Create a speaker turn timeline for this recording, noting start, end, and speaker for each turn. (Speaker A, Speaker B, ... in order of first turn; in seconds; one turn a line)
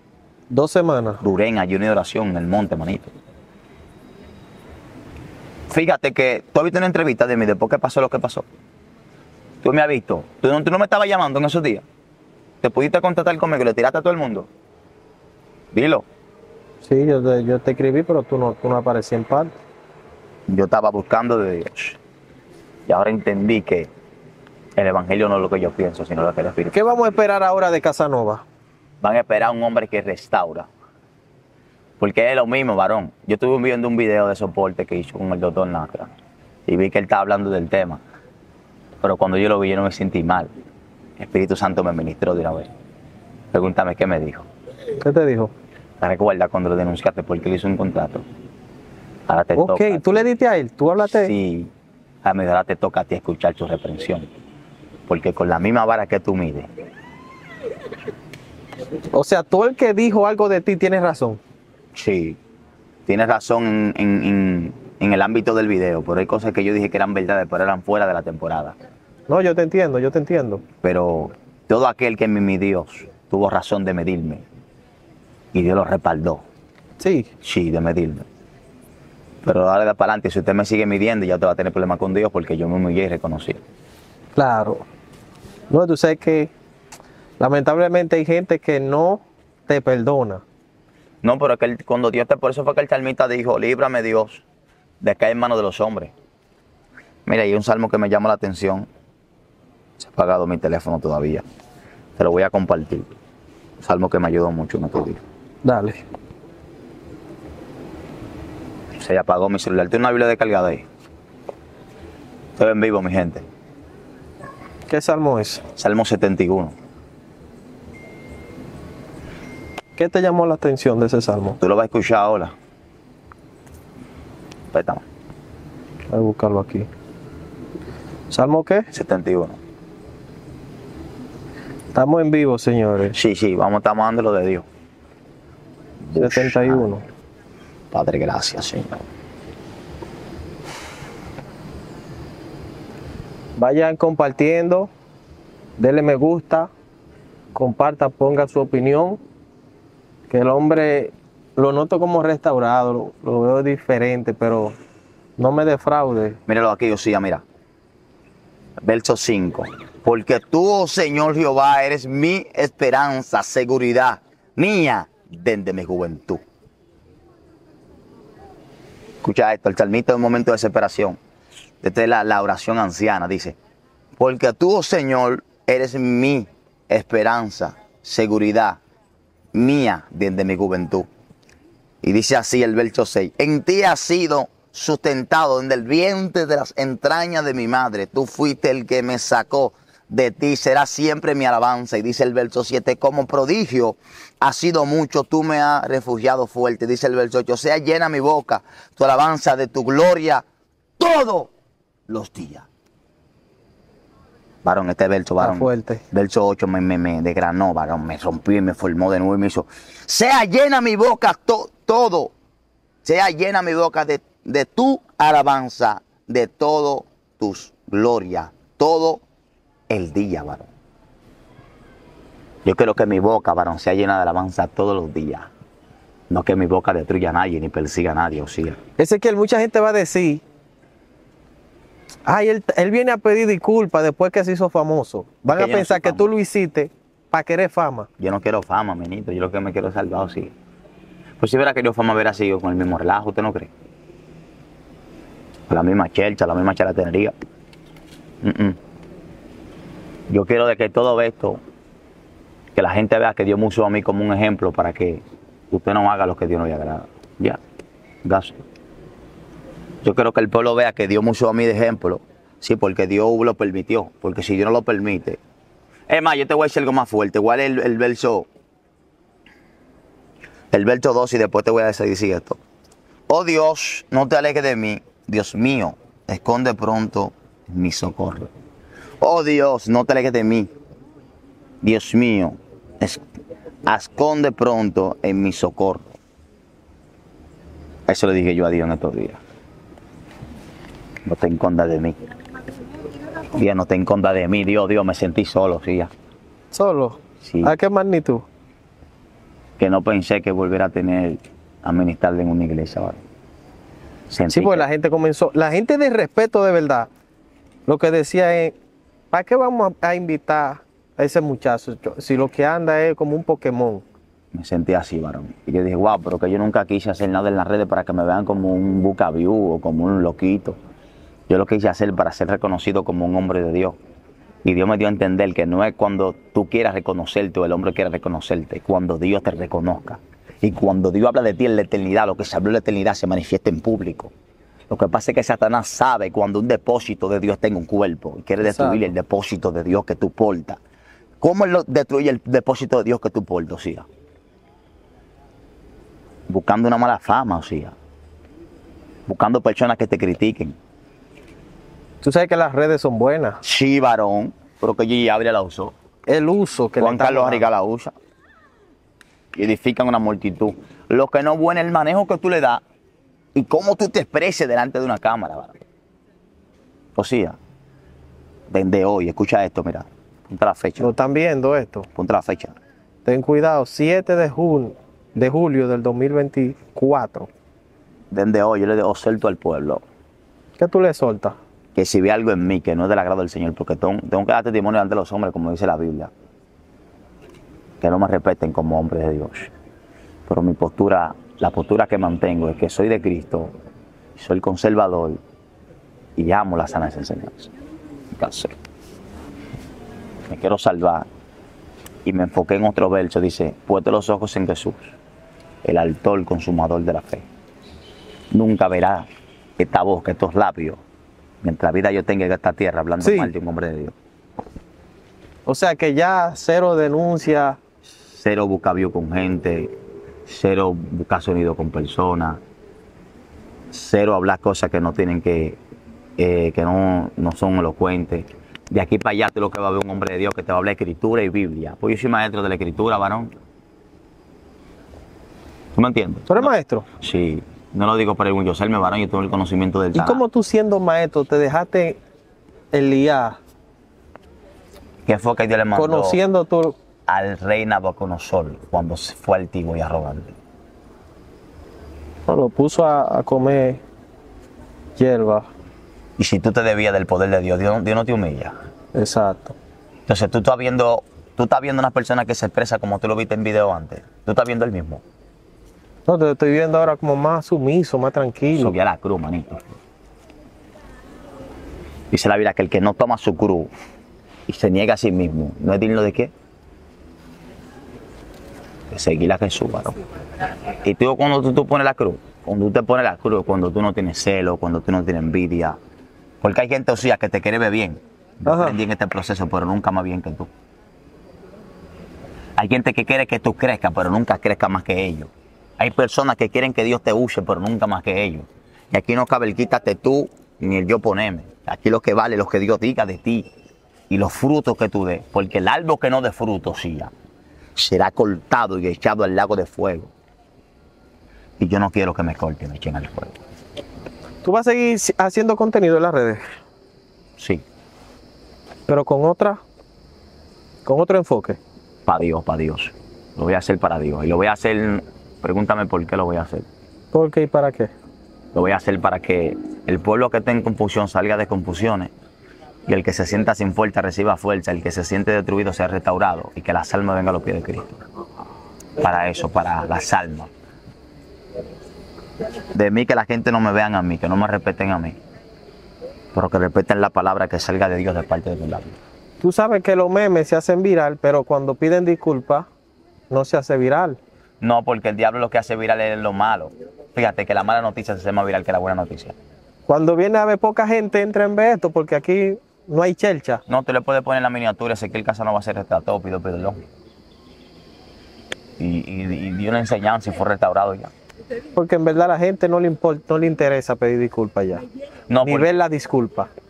Speaker A: 0.5-1.2
Speaker B: 1.2-3.1
Speaker B: 5.7-8.5
Speaker B: 9.6-11.8
Speaker B: 12.6-14.5
Speaker B: 15.7-16.1
Speaker A: 16.8-19.5
Speaker B: 20.5-22.0
Speaker B: 22.9-23.9
Speaker B: 24.8-27.1
Speaker A: 26.7-28.4
Speaker B: 29.0-30.7
Speaker B: 32.0-36.1
Speaker B: 36.7-38.0
Speaker B: 39.0-40.5
Speaker B: 41.2-42.7
Speaker B: 43.5-44.5
Speaker A: 45.0-45.5
Speaker B: 46.0-48.2
Speaker B: 49.3-50.3
Speaker A: 49.6-51.3
Speaker B: 51.1-51.7
Speaker B: 52.2-54.3
Speaker B: 55.1-56.7
Speaker A: 59.1-61.4
Speaker B: 61.9-62.4
Speaker B: 63.1-68.8
Speaker A: 69.3-70.6
Speaker B: 70.8-74.4
Speaker B: 75.5-76.4
Speaker A: 77.0-77.3
Speaker B: 77.4-78.3
Speaker B: 79.4-83.6
Speaker A: 84.3-84.8
Speaker A: 85.7-86.5
Speaker A: 87.4-90.4
Speaker B: 91.2-94.4
Speaker B: 95.0-96.1
Speaker B: 97.3-98.9
Speaker B: 100.0-101.4
Speaker B: 102.2-103.1
Speaker B: 103.8-105.2
Speaker A: 105.6-106.0
Speaker B: 109.0-110.9
Speaker B: 112.6-113.5
Speaker A: 114.9-115.6
Speaker B: 115.8-116.8
Speaker A: 120.0-121.6
Speaker B: 121.6-122.5
Speaker B: 124.7-125.1
Speaker A: 126.1-126.9
Speaker A: 128.3-128.9
Speaker B: 128.9-129.6
Speaker A: 131.9-133.2
Speaker B: 133.1-134.7
Speaker B: 136.0-136.9
Speaker A: 136.2-137.0
Speaker B: 137.9-139.1
Speaker A: 143.6-144.9
Speaker A: 145.8-146.7
Speaker A: 147.6-149.2
Speaker A: 150.3-154.8
Speaker A: 155.4-156.4
Speaker B: 156.5-157.4
Speaker B: 158.8-166.4
Speaker B: 169.2-171.2
Speaker B: 171.8-173.6
Speaker B: 174.2-178.8
Speaker B: 179.5-181.1
Speaker B: 182.0-200.4
Speaker B: 201.0-201.5
Speaker B: 202.1-202.7
Speaker B: 204.6-212.3
Speaker A: 205.4-206.0
Speaker B: 213.1-219.2
Speaker B: 219.9-220.7
Speaker B: 222.7-225.5
Speaker B: 226.3-228.8
Speaker A: 229.0-230.4
Speaker A: 232.3-238.1
Speaker B: 235.5-236.3
Speaker B: 238.2-240.5
Speaker B: 241.4-243.7
Speaker B: 245.7-247.3
Speaker B: 248.4-248.8
Speaker B: 250.3-251.6
Speaker B: 252.8-257.6
Speaker B: 258.2-258.6
Speaker B: 260.0-265.4
Speaker B: 266.1-268.5
Speaker B: 270.7-272.6
Speaker B: 273.3-278.5
Speaker B: 279.2-280.7
Speaker B: 281.8-283.2
Speaker B: 283.9-286.1
Speaker B: 288.1-289.4
Speaker B: 291.2-292.2
Speaker B: 293.5-296.1
Speaker A: 296.7-298.4
Speaker B: 297.4-297.7
Speaker B: 299.8-303.2
Speaker B: 304.3-304.9
Speaker A: 304.5-307.1
Speaker A: 307.9-308.8
Speaker A: 309.3-314.0
Speaker B: 314.5-320.8
Speaker B: 321.5-324.0
Speaker B: 324.6-334.3
Speaker B: 334.9-340.8
Speaker A: 338.6-339.1
Speaker B: 341.4-344.1
Speaker B: 346.5-347.9
Speaker B: 349.3-350.8
Speaker A: 352.2-353.6
Speaker B: 353.6-355.9
Speaker A: 356.3-357.6
Speaker B: 357.0-358.1
Speaker B: 359.6-362.8
Speaker B: 363.6-365.9
Speaker B: 367.2-367.6
Speaker B: 368.7-371.1
Speaker A: 371.0-372.1
Speaker B: 372.1-372.8
Speaker A: 373.2-377.5
Speaker B: 378.3-380.0
Speaker A: 380.8-381.6
Speaker B: 381.9-386.3
Speaker B: 388.0-389.7
Speaker B: 390.5-393.7
Speaker B: 394.4-395.4
Speaker B: 396.4-397.7
Speaker B: 398.3-398.8
Speaker B: 400.5-401.3
Speaker B: 402.2-405.1
Speaker B: 405.8-407.5
Speaker B: 408.5-409.3
Speaker B: 409.8-411.0
Speaker B: 411.6-414.1
Speaker A: 413.2-413.5
Speaker A: 415.7-417.8
Speaker B: 418.3-419.9
Speaker B: 420.5-422.6
Speaker B: 423.9-425.8
Speaker B: 426.4-433.5
Speaker B: 436.0-436.7
Speaker A: 436.5-437.1
Speaker B: 437.2-440.4
Speaker A: 440.1-442.2
Speaker A: 442.9-443.6
Speaker B: 445.3-446.4
Speaker A: 445.9-447.0
Speaker B: 447.3-450.6
Speaker A: 452.5-454.0
Speaker A: 455.2-455.7
Speaker B: 456.4-458.8
Speaker A: 459.1-459.8
Speaker B: 460.3-465.2
Speaker A: 466.3-468.9
Speaker B: 468.8-470.0
Speaker B: 472.3-473.9
Speaker B: 474.7-476.5
Speaker B: 479.1-480.2
Speaker B: 481.0-486.0
Speaker B: 486.6-490.7
Speaker A: 488.7-489.0
Speaker B: 492.8-503.7
Speaker B: 504.3-507.3
Speaker B: 508.0-510.3
Speaker B: 511.8-513.6
Speaker A: 514.6-516.8
Speaker B: 517.6-517.8
Speaker A: 519.1-519.8
Speaker A: 521.1-521.8
Speaker B: 522.3-526.9
Speaker A: 527.3-528.1
Speaker B: 528.7-532.3
Speaker B: 533.1-538.3
Speaker B: 539.2-540.7
Speaker B: 542.9-545.4
Speaker B: 546.5-549.2
Speaker A: 549.6-552.9
Speaker A: 553.5-554.4
Speaker B: 554.8-559.6
Speaker A: 560.1-563.8
Speaker B: 563.9-567.0
Speaker B: 569.0-571.3
Speaker A: 572.0-575.1
Speaker B: 575.5-575.9
Speaker A: 575.6-576.7